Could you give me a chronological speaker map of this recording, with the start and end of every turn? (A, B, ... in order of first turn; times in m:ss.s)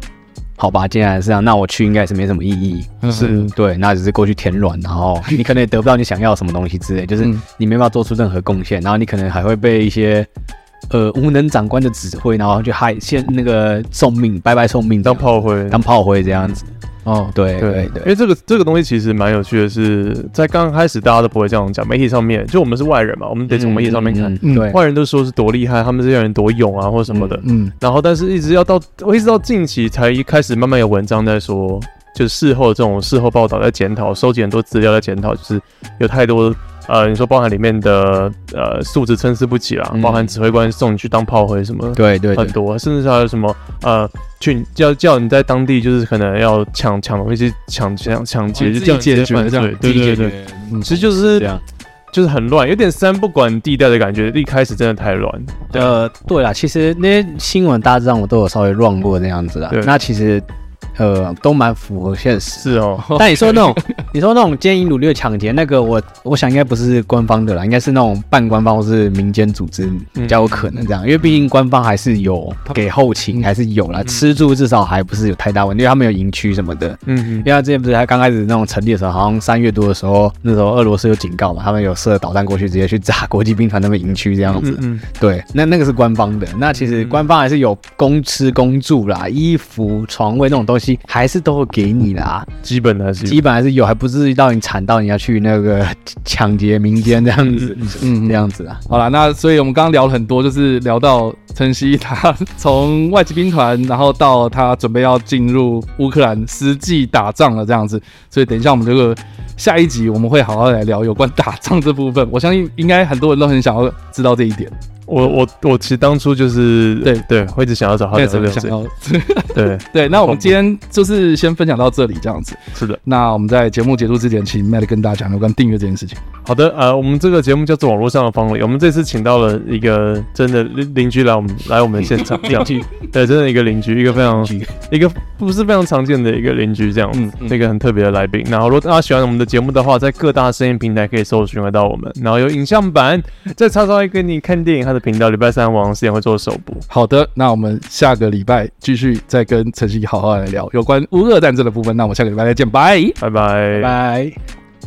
0:00.6-0:10.3 A
0:03.0-0:03.5 B
0:10.9-0:16.7 A
0:15.0-0:15.8 C
0:17.0-0:17.3 B
0:17.3-0:18.1 A
0:17.6-0:51.5 C
0:23.5-0:24.8 A
0:24.4-0:24.7 B
0:27.1-0:27.4 A
0:27.4-0:27.7 B
0:39.9-0:40.3 A
0:42.0-0:42.6 A
0:48.5-0:49.9 B
0:49.8-0:51.6 A
0:52.1-0:55.9 C
0:55.7-1:00.4 A
1:01.0-1:32.5 A
1:02.6-1:03.1 C
1:03.0-1:04.0 B
1:10.2-1:10.7 C
1:17.1-1:17.5 C
1:24.5-1:25.0 C
1:26.9-1:27.2 C
1:32.6-1:33.4 C
1:33.2-1:38.8 A
1:38.0-1:54.7 B
1:55.1-1:58.7 C
1:58.1-2:06.2 B
1:59.5-2:00.6 C
2:02.7-2:03.0 C
2:06.4-2:26.8 C
2:12.4-2:12.9 A
2:14.1-2:14.7 A
2:17.1-2:17.6 B
2:26.9-2:33.2 B
2:33.2-2:34.0 C
2:33.7-2:34.4 A